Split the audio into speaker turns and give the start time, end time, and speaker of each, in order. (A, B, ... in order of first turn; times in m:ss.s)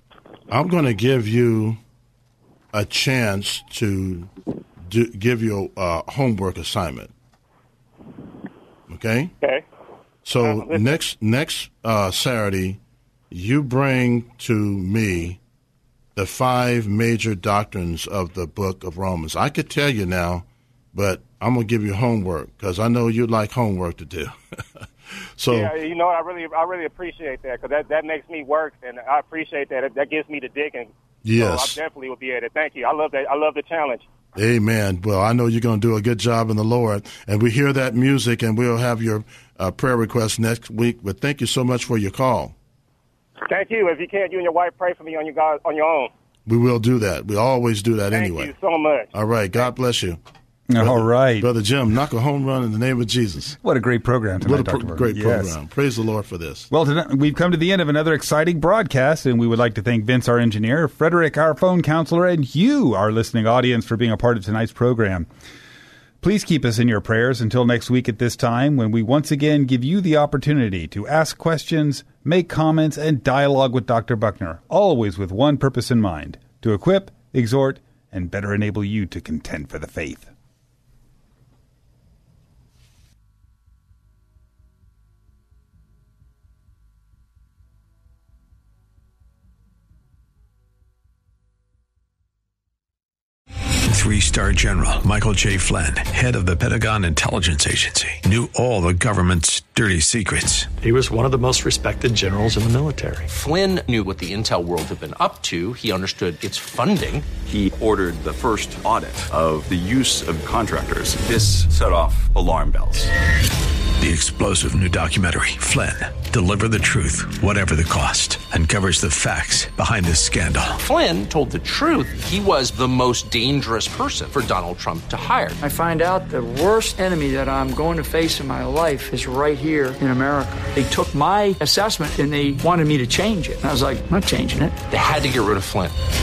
0:00.5-0:01.8 A
0:02.7-0:07.1 A
0:08.9-0:09.3 A
0:10.2-0:12.8 A
0:10.4-0:10.9 B
0:13.3-0:15.4 A
0:16.2-0:25.7 A
0:25.5-0:34.1 B
0:31.2-0:31.8 A
0:34.4-0:42.6 A
0:43.5-0:46.1 B
0:46.5-0:48.5 A
0:48.1-0:49.1 B
0:49.1-0:50.2 A
0:50.7-0:51.5 C
0:50.8-0:53.6 A
0:53.6-0:55.6 C
0:54.4-0:56.7 A
0:56.7-1:05.3 C
1:06.2-1:20.3 C
1:33.9-1:40.7 D
1:40.8-1:43.3 E
1:43.3-1:47.3 F
1:47.4-1:53.1 G
1:54.0-2:00.8 D
2:00.8-2:05.6 F
2:05.6-2:14.8 H
2:14.9-2:15.9 F